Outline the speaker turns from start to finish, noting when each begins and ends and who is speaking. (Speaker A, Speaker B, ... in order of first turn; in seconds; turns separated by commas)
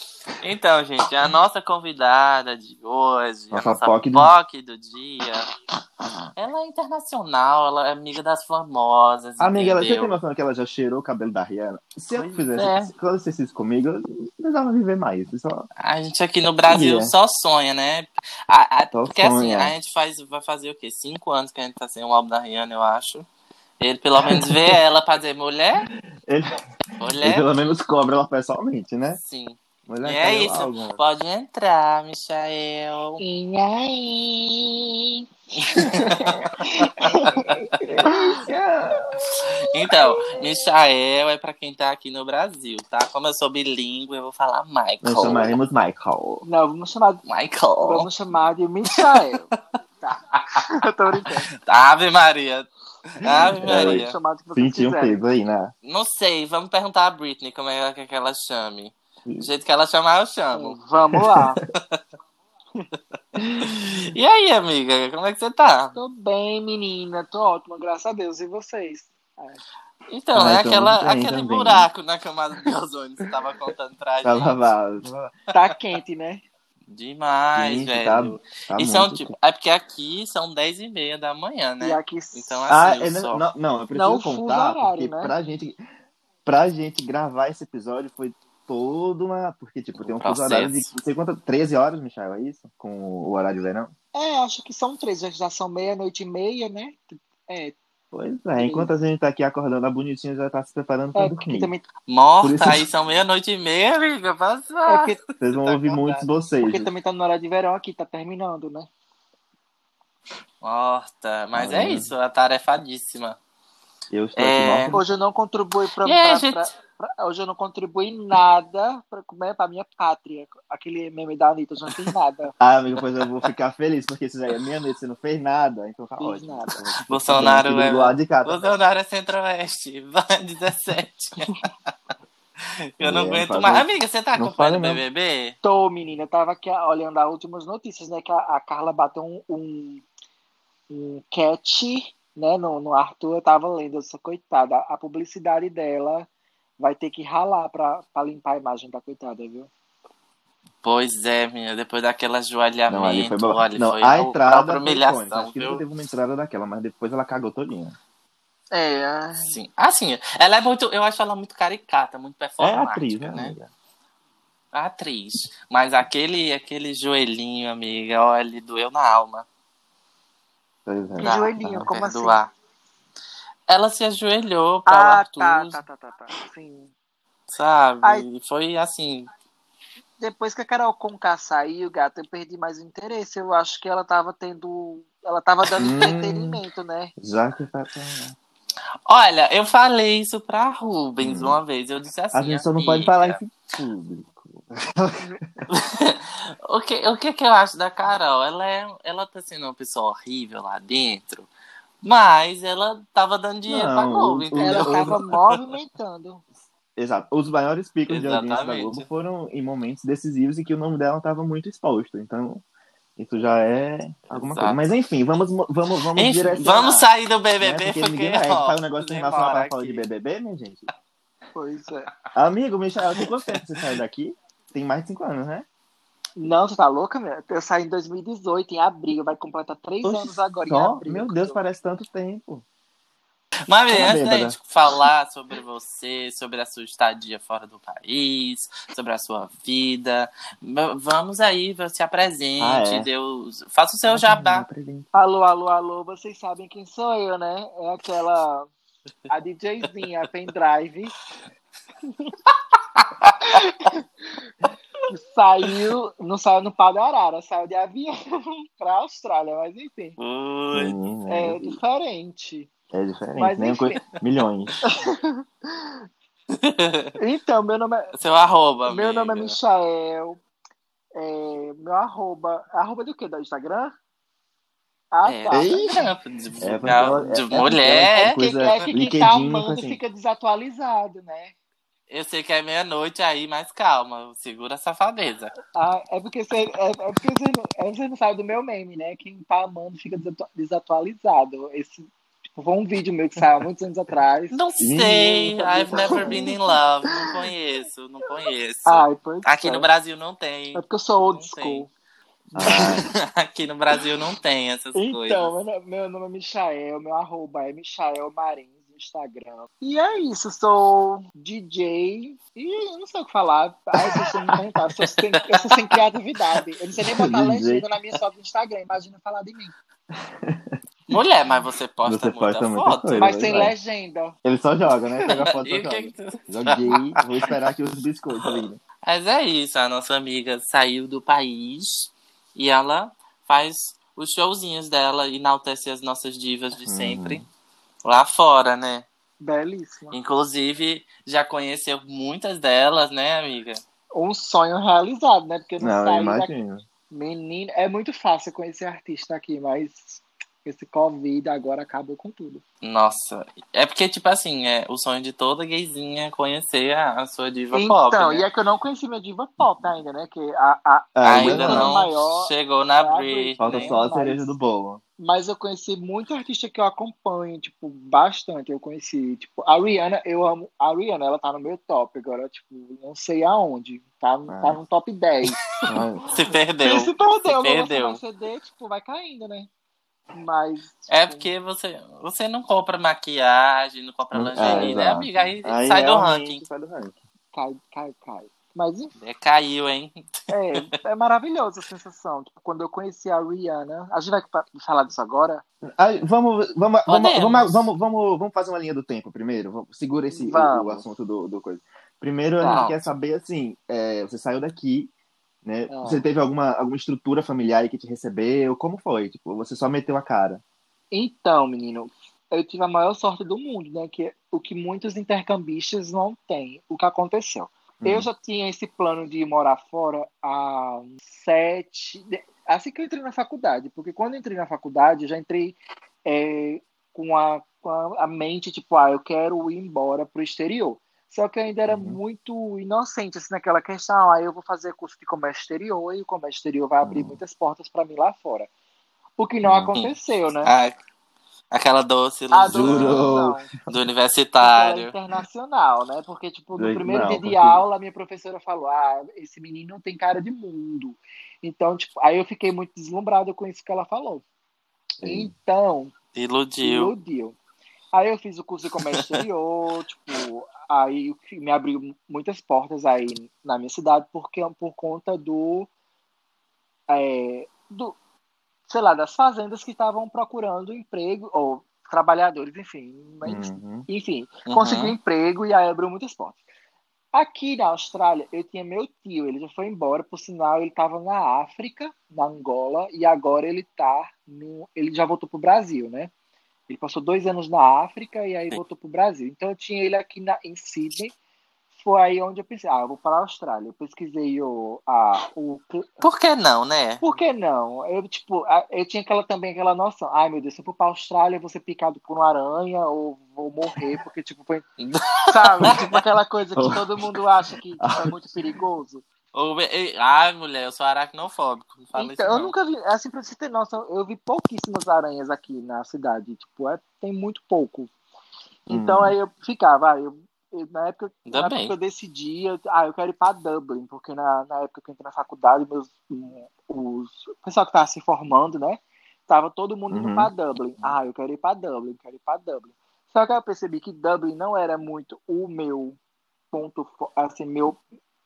Speaker A: 0.3-5.5, Speaker B: 3.5-4.3, Speaker A: 6.4-10.2, Speaker B: 9.4-15.7, Speaker A: 12.1-12.9, Speaker A: 15.8-23.3, Speaker B: 16.7-17.1, Speaker B: 18.9-19.7, Speaker A: 23.8-25.9, Speaker B: 24.2-24.8, Speaker B: 26.2-26.6, Speaker A: 27.0-27.4, Speaker B: 27.2-29.2, Speaker A: 29.2-33.2, Speaker B: 29.9-31.0, Speaker C: 33.2-38.4, Speaker A: 35.6-37.9, Speaker B: 37.9-39.2, Speaker A: 39.3-45.6, Speaker B: 45.0-46.4, Speaker C: 46.4-47.2, Speaker A: 47.2-48.1, Speaker C: 47.8-49.5, Speaker A: 49.0-49.4, Speaker C: 50.0-51.5, Speaker A: 50.3-50.6, Speaker A: 51.2-54.1, Speaker B: 53.4-55.7, Speaker C: 53.6-55.2, Speaker A: 55.8-60.8, Speaker C: 60.5-61.6, Speaker A: 63.6-66.0, Speaker C: 66.0-69.6, Speaker A: 70.1-74.7, Speaker B: 70.3-71.9, Speaker B: 74.2-75.3, Speaker C: 75.5-76.4, Speaker A: 76.9-83.4, Speaker B: 77.5-79.3, Speaker C: 81.8-82.7, Speaker B: 82.7-85.8, Speaker C: 83.9-85.3, Speaker B: 86.5-93.9, Speaker A: 90.0-90.9, Speaker C: 94.1-97.8, Speaker B: 98.1-101.7, Speaker C: 98.6-98.9, Speaker C: 101.2-101.8, Speaker A: 102.1-106.2, Speaker B: 102.4-102.8, Speaker C: 104.9-105.2, Speaker B: 105.4-106.9, Speaker C: 106.6-108.9, Speaker A: 110.6-113.4, Speaker B: 111.5-112.1, Speaker B: 114.1-115.0, Speaker A: 114.4-115.0, Speaker C: 114.9-122.5, Speaker A: 116.0-116.7, Speaker B: 122.6-128.7, Speaker C: 126.2-126.8, Speaker A: 127.1-131.6, Speaker A: 133.0-135.6, Speaker B: 133.0-135.0, Speaker C: 135.6-140.0, Speaker C: 140.9-146.3, Speaker C: 146.8-149.7, Speaker A: 150.8-155.8, Speaker B: 152.9-158.0, Speaker C: 158.7-159.6, Speaker A: 159.4-163.5, Speaker B: 162.6-163.7, Speaker A: 164.7-169.5, Speaker B: 170.9-171.9, Speaker C: 171.2-172.4, Speaker A: 171.2-172.5, Speaker A: 173.7-175.8, Speaker C: 174.9-176.9, Speaker A: 177.5-179.3, Speaker C: 180.2-187.1, Speaker A: 185.8-186.2, Speaker B: 185.8-186.6, Speaker B: 187.2-188.4, Speaker A: 189.1-193.4, Speaker B: 191.2-191.6, Speaker B: 192.3-195.3, Speaker A: 195.7-201.5, Speaker A: 202.0-205.6, Speaker B: 203.7-205.2, Speaker C: 204.6-206.4, Speaker B: 207.0-212.6, Speaker A: 208.1-209.1, Speaker B: 213.2-217.1, Speaker A: 214.3-214.9, Speaker A: 216.2-220.0, Speaker B: 217.6-220.9, Speaker C: 221.6-222.1, Speaker B: 222.3-225.7, Speaker A: 223.1-223.6, Speaker C: 226.4-231.6, Speaker B: 230.0-232.7, Speaker A: 233.7-244.7, Speaker B: 233.9-234.6, Speaker B: 242.6-243.1, Speaker B: 244.1-245.1, Speaker C: 245.1-248.7, Speaker C: 249.3-251.1, Speaker A: 253.0-253.7, Speaker C: 253.4-254.0, Speaker C: 255.1-260.2, Speaker A: 260.2-260.9, Speaker B: 260.7-261.8, Speaker C: 261.3-262.7, Speaker B: 262.9-264.8, Speaker C: 263.4-264.0, Speaker C: 264.8-266.0, Speaker A: 266.5-267.2, Speaker C: 267.2-268.1, Speaker A: 268.1-269.6, Speaker C: 268.9-270.4, Speaker C: 271.1-273.9, Speaker C: 275.1-275.9, Speaker A: 275.3-278.9, Speaker B: 275.5-276.1, Speaker B: 276.6-280.0, Speaker C: 278.2-281.5, Speaker A: 282.1-285.6, Speaker C: 285.7-294.6, Speaker A: 294.5-301.9, Speaker B: 294.8-296.5, Speaker C: 295.6-297.3, Speaker C: 298.9-299.9, Speaker C: 300.8-301.9, Speaker B: 302.5-303.1, Speaker C: 302.6-303.0, Speaker A: 302.6-305.5, Speaker C: 304.9-319.7, Speaker B: 317.1-317.9, Speaker B: 320.2-320.8, Speaker A: 321.1-323.4, Speaker B: 322.1-323.7, Speaker C: 323.2-324.4, Speaker B: 324.4-328.8, Speaker A: 325.3-327.5, Speaker A: 328.5-337.4, Speaker B: 336.9-337.4, Speaker A: 338.1-339.1, Speaker C: 339.4-340.2, Speaker A: 340.1-343.8, Speaker C: 344.1-346.5, Speaker B: 345.8-346.8, Speaker C: 347.1-352.6, Speaker A: 352.8-358.4, Speaker C: 357.7-364.5, Speaker B: 361.2-362.0, Speaker A: 361.3-364.0, Speaker B: 363.6-365.0, Speaker C: 365.2-375.8, Speaker B: 374.5-374.8, Speaker B: 375.9-376.3, Speaker A: 376.3-378.2, Speaker C: 376.8-379.7, Speaker C: 380.3-381.5, Speaker A: 381.1-386.6, Speaker B: 384.3-387.2, Speaker C: 384.6-385.0, Speaker C: 387.5-389.1, Speaker A: 389.2-390.8, Speaker C: 390.5-395.6, Speaker B: 395.8-405.1, Speaker A: 397.1-397.9, Speaker C: 400.3-401.1, Speaker C: 402.6-402.9, Speaker A: 402.7-403.0, Speaker B: 405.6-410.6, Speaker C: 405.9-406.3, Speaker C: 411.1-438.7, Speaker B: 418.0-418.3, Speaker B: 431.9-432.2, Speaker B: 437.0-437.4, Speaker C: 439.4-440.7, Speaker B: 439.6-439.9, Speaker A: 439.9-441.0, Speaker A: 441.7-445.1, Speaker C: 442.5-443.7, Speaker B: 442.7-443.7, Speaker C: 444.6-454.4, Speaker B: 446.8-447.8, Speaker B: 455.2-455.5, Speaker C: 455.2-456.1, Speaker A: 456.3-457.1, Speaker C: 456.8-457.6, Speaker C: 458.1-465.9, Speaker A: 459.1-459.4, Speaker C: 467.1-468.2, Speaker C: 468.9-476.6, Speaker B: 473.4-474.1, Speaker A: 474.7-475.1, Speaker C: 477.3-486.3, Speaker C: 486.9-491.3, Speaker C: 492.0-496.1, Speaker A: 496.2-497.2, Speaker C: 497.2-504.9, Speaker A: 505.0-506.1, Speaker C: 505.5-509.2, Speaker B: 506.8-507.1, Speaker B: 508.0-508.3, Speaker A: 509.5-512.7, Speaker C: 512.1-518.1, Speaker C: 518.9-536.2, Speaker B: 518.9-519.4, Speaker A: 521.5-521.9, Speaker B: 530.1-530.5, Speaker C: 536.7-538.0